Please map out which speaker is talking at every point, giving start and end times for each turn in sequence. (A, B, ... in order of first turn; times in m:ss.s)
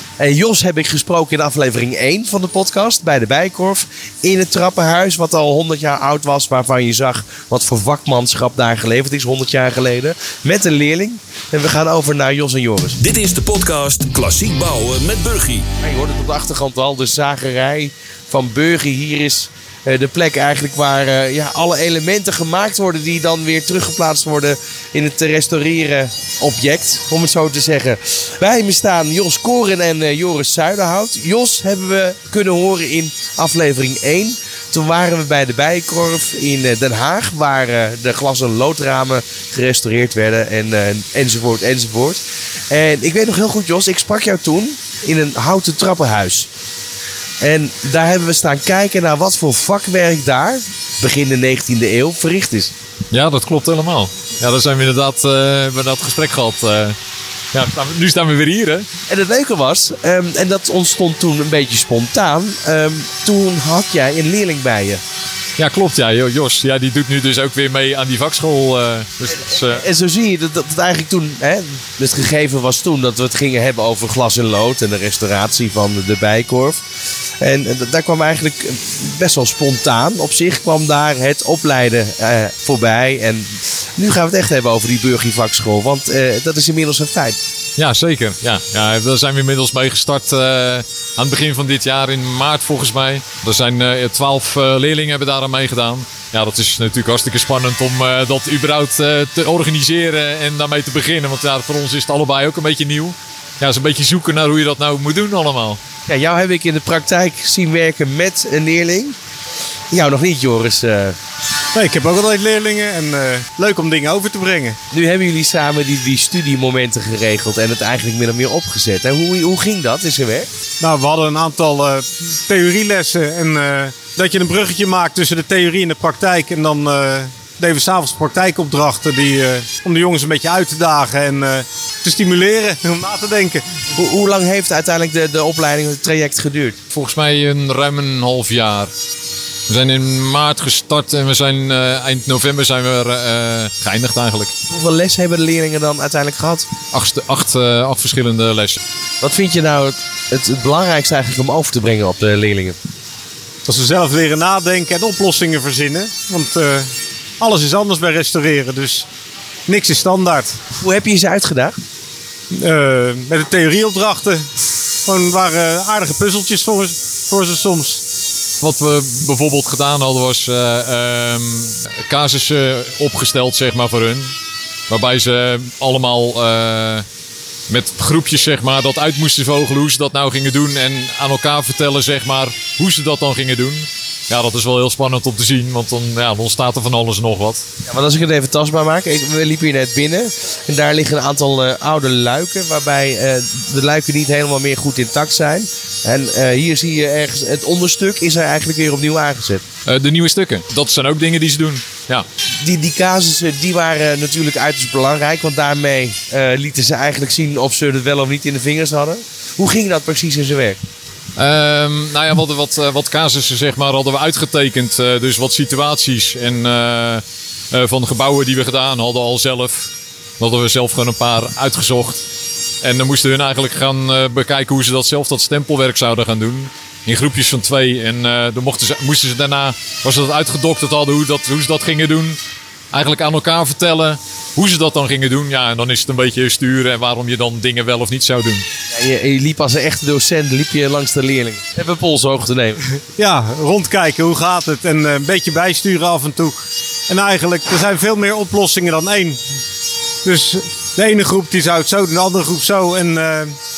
0:00.2-0:13.0 A
0:13.0-0:15.6 B
0:15.8-0:46.5 A
0:47.4-0:52.7 A
0:53.1-0:57.0 C
0:57.5-0:58.9 C
0:59.1-1:05.0 A
1:05.6-1:09.8 C
1:09.3-1:16.8 A
1:17.4-1:27.4 A
1:27.8-1:45.8 C
1:46.1-1:49.2 A
1:49.9-1:51.2 A
1:51.7-1:54.8 D
1:54.9-2:00.5 A
2:00.8-2:13.6 D
2:13.9-2:16.8 A
2:16.9-2:18.9 C
2:19.7-2:24.5 C
2:24.7-2:26.7 A
2:26.9-2:28.8 C
2:29.2-2:32.8 A
2:33.6-2:39.0 D
2:39.7-2:40.6 D
2:40.8-2:41.8 A
2:42.5-2:44.4 D
2:45.0-2:48.0 D
2:48.6-2:54.3 C
2:54.9-2:57.0 C
2:57.7-3:07.6 C
3:07.8-3:19.6 A
3:19.8-3:22.2 C
3:22.6-3:30.8 A
3:31.4-3:42.2 C
3:42.8-3:52.4 C
3:52.9-3:58.6 C
3:58.9-4:02.8 A
4:03.2-4:06.5 D
4:07.1-4:09.4 D
4:10.2-4:13.6 D